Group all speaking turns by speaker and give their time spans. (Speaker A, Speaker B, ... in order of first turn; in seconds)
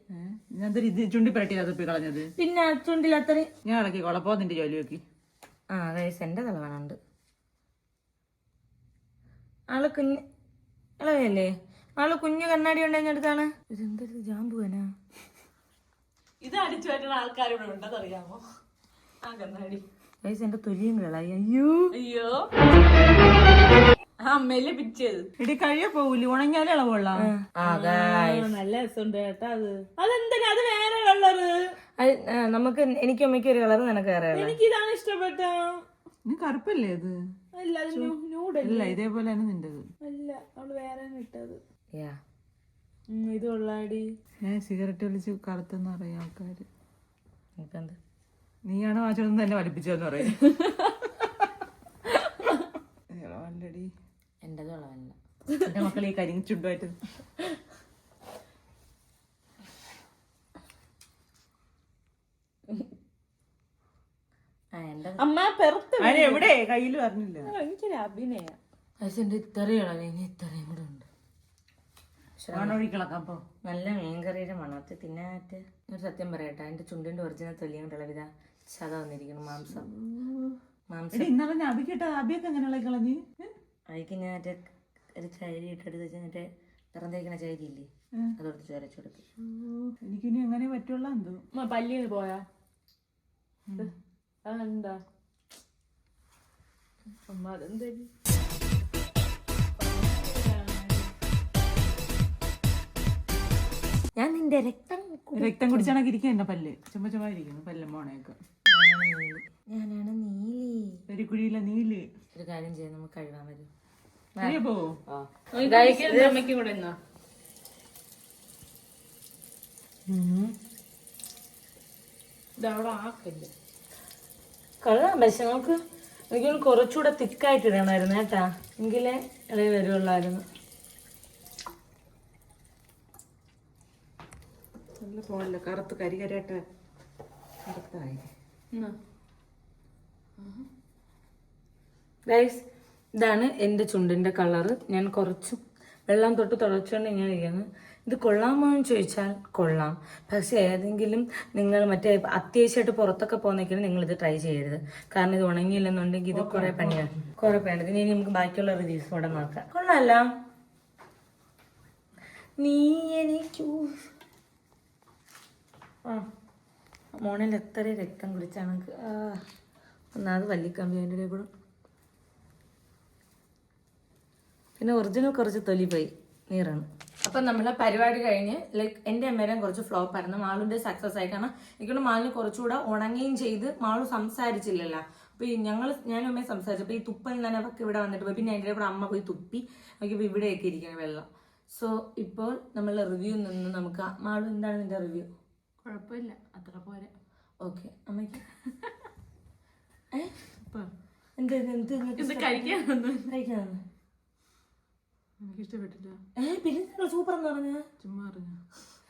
Speaker A: 0.1-2.3, 3.6-5.0, 25.4-27.3, 36.2-37.1, 37.9-39.9, 44.4-46.7, 48.6-50.4, 53.1-53.9, 55.6-57.0, 66.0-67.5, 72.5-73.4, 79.7-80.6, 81.1-83.5, 89.4-91.4, 105.3-108.4, 111.1-112.1, 114.4-115.0, 120.1-120.5, 135.0-136.6, 137.7-138.3, 156.3-157.1, 205.4-206.2, 208.0-208.6
Speaker B: 2.4-3.5, 5.7-7.0, 9.7-10.2, 11.0-14.9, 20.2-21.9, 27.2-28.6, 32.0-34.6, 47.6-48.0, 54.4-55.2, 64.7-65.3, 69.0-71.1, 72.4-72.8, 73.6-79.9, 80.9-81.3, 83.9-89.2, 104.2-106.0, 108.7-111.0, 112.3-113.7, 114.4-116.4, 124.8-125.8, 126.3-130.4, 142.3-142.6, 143.2-160.2, 162.6-164.1, 167.2-169.4, 170.2-171.5, 174.8-195.3, 197.6-198.4, 201.4-203.8, 206.4-207.8
Speaker C: 16.4-18.4, 19.2-19.9, 21.9-22.5, 24.2-25.3, 27.6-31.8, 34.3-35.8, 37.5-39.0, 40.0-41.6, 43.1-44.1, 50.5-51.0, 52.2-52.5, 65.2-66.5, 67.4-68.6, 91.5-92.5, 94.5-95.0, 97.3-98.1, 99.8-101.1, 115.5-117.0, 122.6-123.5, 195.8-197.1, 202.2-203.3